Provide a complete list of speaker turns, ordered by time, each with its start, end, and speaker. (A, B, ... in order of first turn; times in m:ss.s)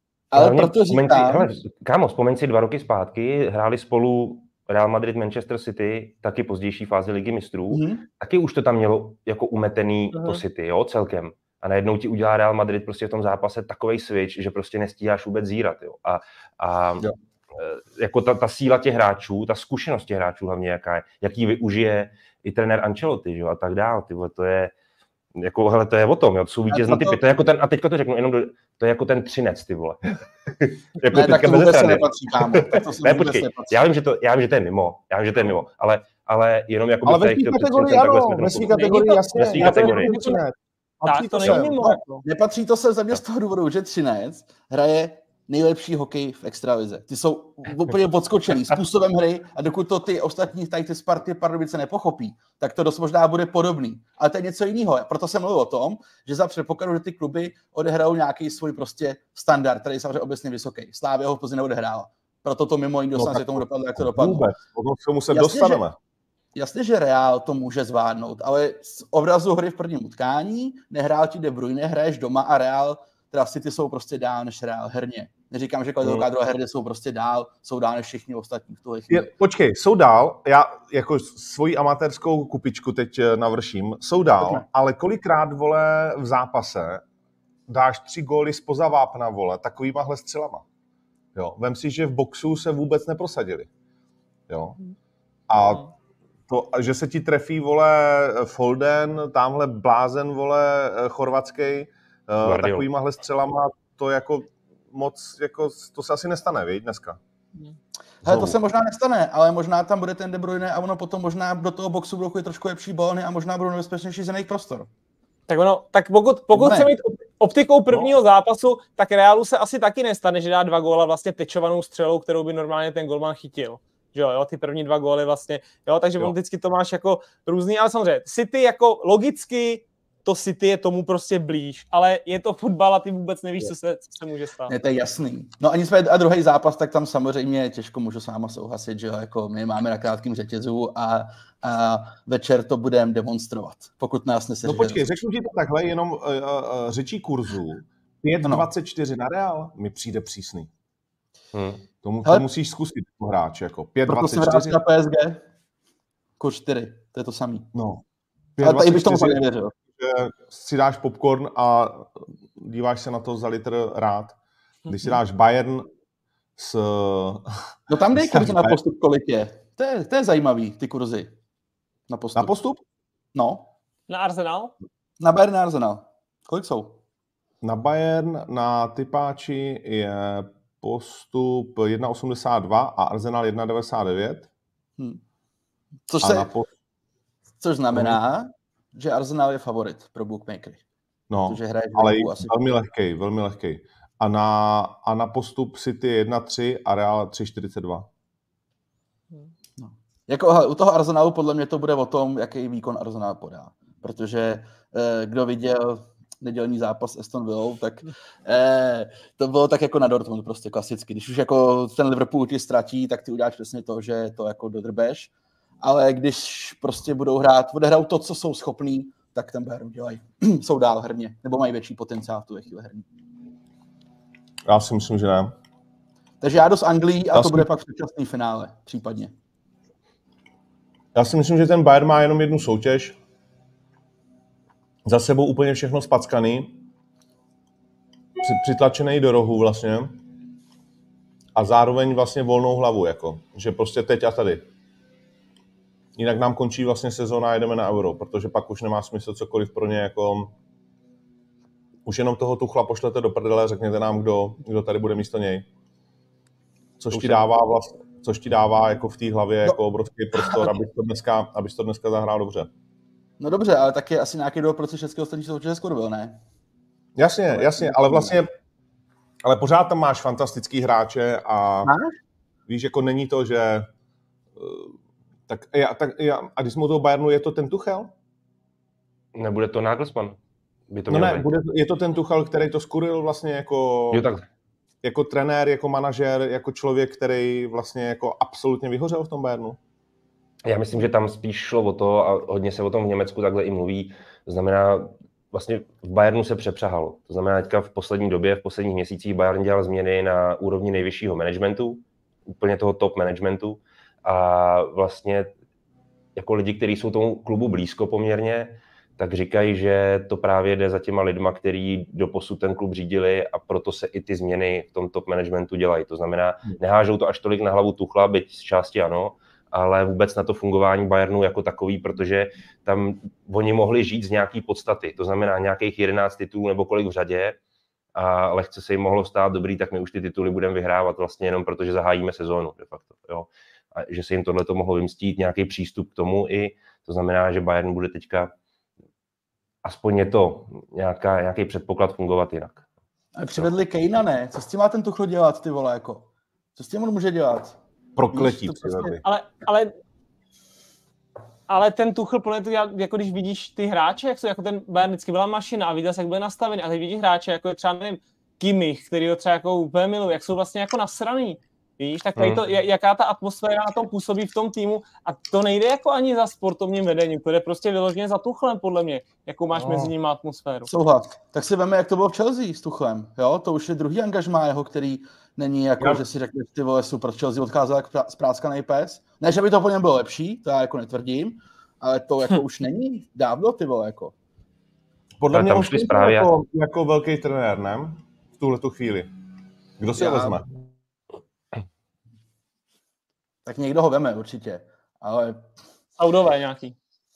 0:00.3-0:01.5 A
0:00.3-0:24.7 B
0:07.7-0:08.0 A
0:10.1-0:10.4 C
0:25.4-0:40.2 B
0:26.7-0:27.2 A
0:31.1-0:33.8 A
0:37.0-0:41.8 D
0:38.7-0:40.4 C
0:41.0-0:42.2 C
0:41.5-1:04.5 A
1:03.2-1:06.0 D
1:05.3-1:05.8 A
1:06.6-1:19.3 A
1:19.1-1:27.0 D
1:24.4-1:24.6 A
1:27.7-1:30.6 D
1:31.4-1:33.7 D
1:34.5-1:34.8 D
1:35.5-1:35.9 D
1:36.5-1:47.2 D
1:42.4-1:42.9 B
1:48.2-1:54.9 A
1:48.2-1:48.6 D
1:55.5-2:14.7 C
1:56.5-1:56.9 A
2:14.7-2:25.2 A
2:24.6-2:30.7 D
2:28.4-2:28.7 A
2:31.5-2:31.8 B
2:32.0-2:34.8 D
2:34.1-2:35.4 A
2:36.4-2:37.7 A
2:37.7-2:38.0 D
2:38.6-2:39.4 D
2:38.6-2:39.7 A
2:40.0-2:45.9 D
2:46.6-2:48.8 D
2:47.9-2:51.3 A
2:52.1-2:52.5 A
2:52.4-2:52.8 D
2:53.3-2:53.7 A
2:54.1-2:54.7 C
2:55.2-2:57.0 A
2:57.6-3:04.5 D
3:06.1-3:06.5 A
3:06.2-3:06.7 D
3:07.6-3:10.8 A
3:07.9-3:08.2 D
3:11.3-3:18.1 D
3:11.5-3:12.5 A
3:19.8-3:43.1 A
3:44.7-3:45.5 D
3:46.4-3:49.3 A
3:47.3-3:47.7 D
3:51.1-3:53.2 D
3:55.0-3:56.8 D
3:58.4-4:00.2 D
4:01.6-4:04.7 D
4:06.2-4:10.5 D
4:12.1-4:15.7 D
4:17.0-4:22.7 D
4:17.1-4:17.5 B
4:20.4-4:20.7 A
4:23.4-4:26.4 A
4:27.2-4:28.5 D
4:27.5-4:28.4 A
4:29.4-4:31.9 D
4:31.8-4:32.1 A
4:32.7-4:33.9 D
4:34.6-4:35.0 D
4:35.5-4:38.1 D
4:39.4-4:40.4 B
4:40.9-4:41.5 B
4:41.1-4:44.3 D
4:44.1-4:44.4 B
4:45.0-4:49.8 D
4:50.6-5:02.0 B
5:02.6-5:05.5 B
5:06.4-5:27.6 B
5:28.2-5:38.5 B
5:39.8-5:42.8 B
5:43.4-5:47.8 A
5:48.2-5:49.2 D
5:48.3-5:49.2 A
5:49.2-5:49.9 C
5:51.7-6:10.9 C
6:02.4-6:02.6 B
6:10.9-6:24.4 A
6:25.4-6:29.3 D
6:25.5-6:26.5 B
6:30.0-6:30.7 D
6:30.2-6:30.6 A
6:33.6-6:35.7 A
6:36.2-6:37.0 C